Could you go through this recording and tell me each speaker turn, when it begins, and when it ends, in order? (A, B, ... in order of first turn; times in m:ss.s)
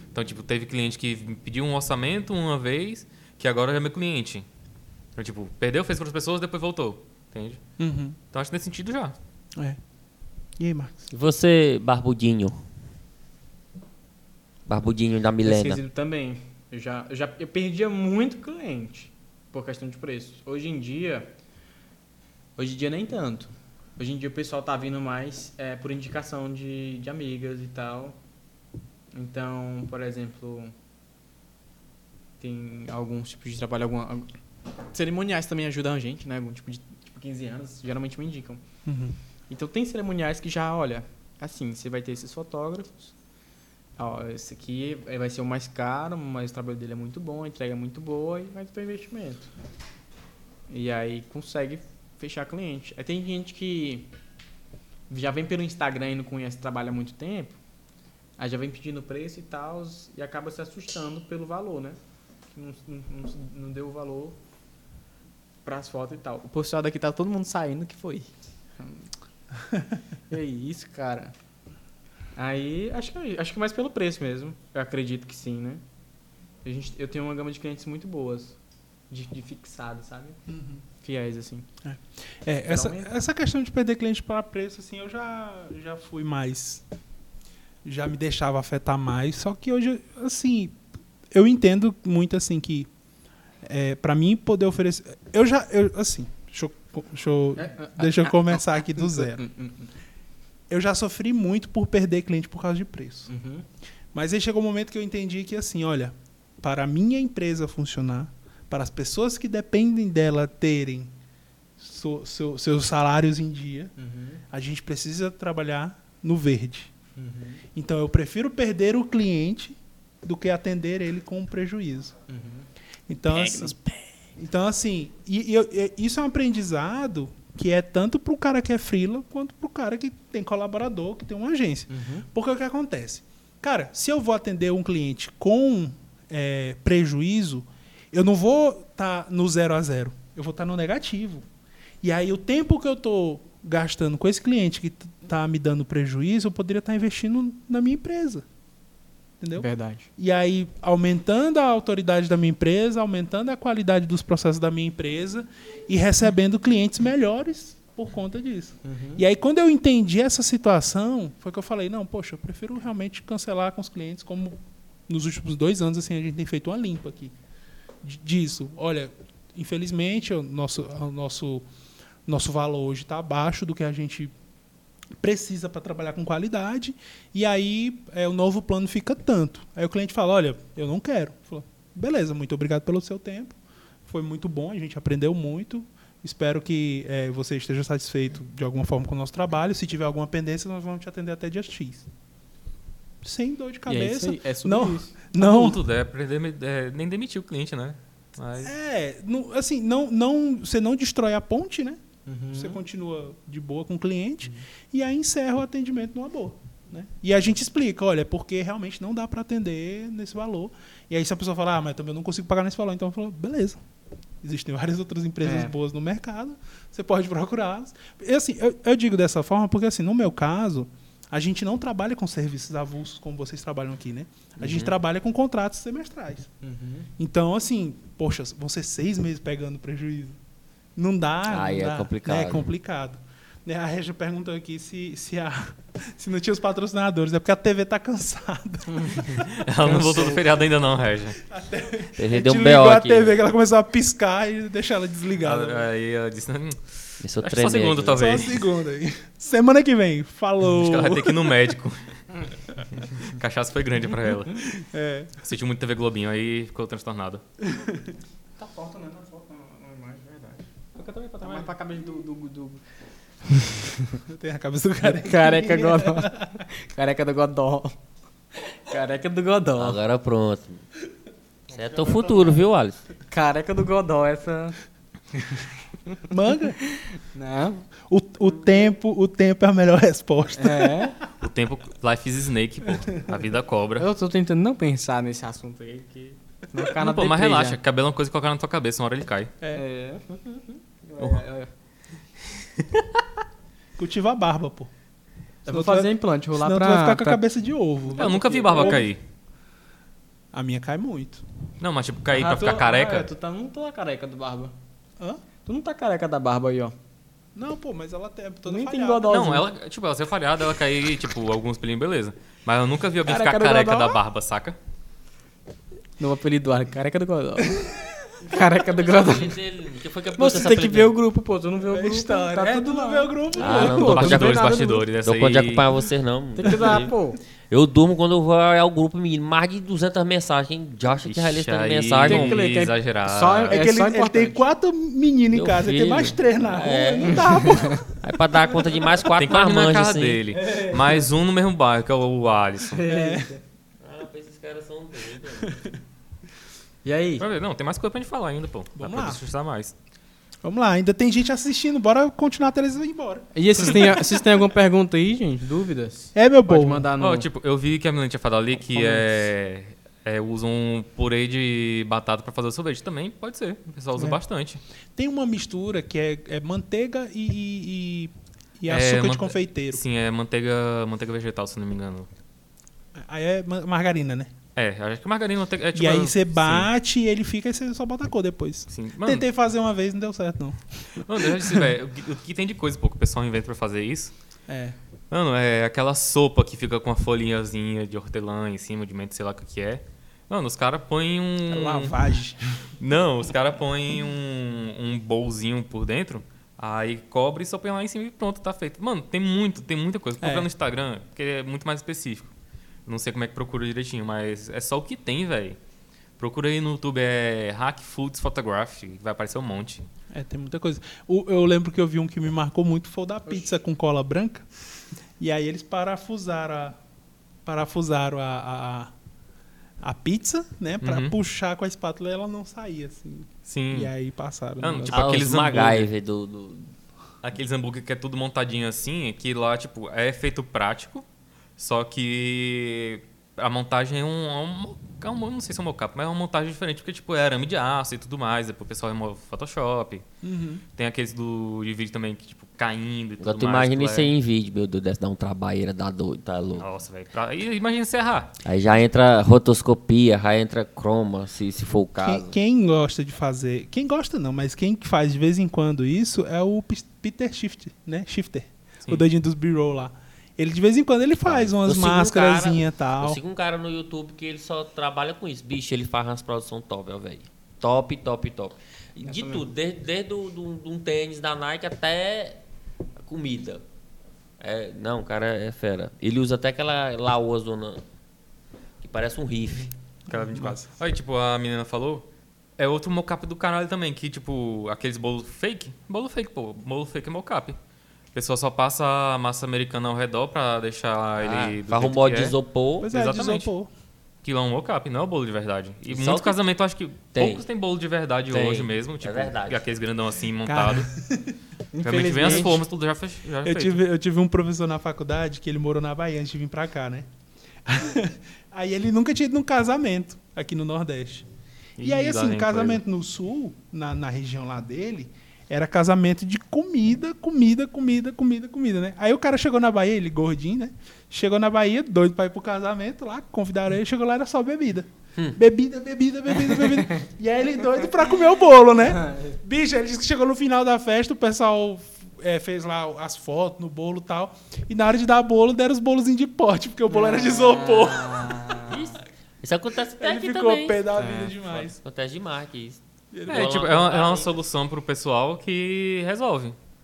0:00.1-0:04.4 A
0:05.2-0:07.6 A
0:07.8-0:08.2 B
0:08.3-0:09.2 A
0:10.6-0:11.0 B
0:11.1-0:12.6 C
0:14.7-0:15.8 C
0:15.4-0:21.3 D
0:22.6-0:28.2 D
0:29.1-0:30.7 D
0:32.4-0:34.3 D
0:34.9-0:38.6 D
0:38.8-0:39.2 B
0:39.5-0:43.1 D
0:44.0-0:49.5 D
0:50.7-0:54.1 D
0:55.1-0:57.6 D
0:58.4-1:02.0 D
1:02.5-1:04.4 D
1:05.6-1:09.1 D
1:10.3-1:11.4 D
1:12.4-1:15.8 D
1:16.6-1:18.6 D
1:19.1-1:20.4 D
1:20.5-1:20.8 B
1:21.0-1:21.7 D
1:21.8-1:26.8 B
1:22.7-1:23.1 D
1:27.8-1:30.8 B
1:31.3-1:32.9 B
1:33.6-1:39.4 B
1:37.6-1:38.4 D
1:39.0-1:39.9 D
1:40.7-1:43.3 B
1:43.3-1:43.7 D
1:44.1-1:51.1 B
1:51.8-1:53.9 B
1:54.0-1:54.4 D
1:54.5-1:56.9 B
1:57.2-1:57.6 D
1:57.7-2:02.2 B
2:02.3-2:02.7 D
2:03.1-2:03.7 B
2:03.3-2:04.1 D
2:04.4-2:21.4 B
2:11.9-2:12.3 D
2:22.0-2:28.4 B
2:29.4-2:47.4 B
2:29.6-2:30.1 D
2:38.8-2:39.2 D
2:48.0-2:51.7 B
2:52.3-2:54.3 B
2:55.2-3:12.1 B
3:13.2-3:15.8 B
3:13.9-3:15.1 D
3:15.4-3:18.7 A
3:18.6-3:22.0 B
3:22.3-3:22.8 D
3:22.5-3:33.8 B
3:34.4-3:46.5 B
3:35.4-3:35.7 D
3:44.6-3:44.9 C
3:46.6-3:47.1 D
3:47.2-3:50.4 B
3:51.0-3:59.4 B
3:51.5-3:52.7 C
3:58.9-3:59.2 D
3:59.4-4:01.4 A
3:59.8-4:00.4 D
4:01.5-4:05.8 B
4:02.2-4:03.4 C
4:05.4-4:08.6 A
4:07.2-4:08.2 C
4:08.1-4:11.5 B
4:10.8-4:14.7 A
4:14.7-4:15.3 B
4:15.4-4:17.4 A
4:17.7-4:18.1 B
4:18.6-4:22.8 D
4:23.5-4:24.2 D
4:24.3-4:26.6 B
4:25.0-4:28.0 D
4:28.7-4:30.0 D
4:29.8-4:30.8 C
4:31.7-4:33.0 C
4:33.3-4:34.8 D
4:35.4-4:36.2 D
4:36.3-4:36.8 B
4:36.9-4:37.9 D
4:38.1-4:41.1 B
4:40.6-4:41.2 D
4:41.4-4:44.1 A
4:44.0-4:47.8 D
4:47.0-4:49.5 A
4:49.7-4:51.7 D
4:54.0-4:54.9 B
4:55.6-4:57.4 D
4:55.7-4:59.1 B
4:58.1-4:59.1 D
4:58.2-4:59.2 A
5:00.5-5:01.4 B
5:01.8-5:03.3 A
5:02.3-5:04.7 D
5:05.6-5:07.0 D
5:07.6-5:09.5 B
5:08.7-5:09.7 D
5:09.3-5:14.8 A
5:13.2-5:14.2 D
5:16.2-5:19.6 D
5:18.6-5:21.2 C
5:20.3-5:25.0 D
5:21.9-5:24.3 B
5:23.6-5:27.1 C
5:23.7-5:25.9 A
5:26.6-5:27.4 D
5:27.7-5:32.6 C
5:31.2-5:33.8 A
5:32.3-5:34.6 D
5:33.7-5:38.2 B
5:35.5-5:40.4 C
5:37.3-5:38.0 D
5:39.3-5:43.0 A
5:40.6-5:41.1 D
5:42.9-5:43.6 D
5:43.1-5:43.6 B
5:44.0-5:45.8 C
5:47.0-5:47.4 D
5:47.4-5:49.9 A
5:49.0-5:49.4 B
5:50.6-5:54.4 B
5:53.5-5:57.5 D
5:56.4-5:57.0 B
5:57.2-6:04.8 A
5:59.0-5:59.2 D
6:05.2-6:10.0 B
6:08.9-6:12.3 A
6:13.2-6:14.5 B
6:14.8-6:16.9 A
6:15.9-6:21.9 B
6:18.9-6:19.4 A
6:21.2-6:24.3 A
6:24.7-6:25.0 B
6:25.3-6:32.2 A
6:31.7-6:32.9 B
6:33.0-6:42.5 A
6:40.4-6:40.7 B
6:43.1-6:45.8 A
6:46.4-6:50.0 A
6:50.3-6:54.7 B
6:55.4-6:57.0 B
6:57.6-6:59.1 B
7:00.0-7:05.4 B
7:01.0-7:01.4 A
7:03.7-7:04.1 A
7:04.8-7:06.1 A
7:05.1-7:06.9 C
7:07.4-7:11.2 A
7:11.8-7:20.2 A
7:20.4-7:20.8 B
7:21.0-7:24.3 A
7:23.4-7:26.9 C
7:26.8-7:28.5 A
7:28.6-7:32.5 C
7:32.2-7:43.4 B
7:41.4-7:52.6 C
7:49.2-7:49.6 D
7:53.2-7:53.8 C
7:54.6-7:58.0 C
7:59.0-7:59.9 C
8:00.3-8:00.8 B
8:00.3-8:02.2 A
8:02.8-8:07.8 A
8:08.3-8:13.7 A
8:11.4-8:13.1 C
8:13.0-8:13.9 B
8:14.4-8:21.1 A
8:16.1-8:16.6 C
8:17.3-8:17.6 C
8:18.5-8:19.8 C
8:20.7-8:21.6 B
8:21.9-8:22.8 D
8:22.0-8:24.0 A
8:22.4-8:22.7 B
8:23.6-8:27.3 B
8:27.8-8:31.4 B
8:32.0-8:33.0 A
8:32.0-8:58.8 B
8:46.8-8:47.2 D
8:49.2-8:49.6 D
8:57.1-8:59.0 D
8:58.9-9:01.0 C
9:00.2-9:02.0 B
9:01.2-9:01.5 D
9:01.7-9:04.5 C
9:03.3-9:03.9 B
9:03.5-9:06.8 A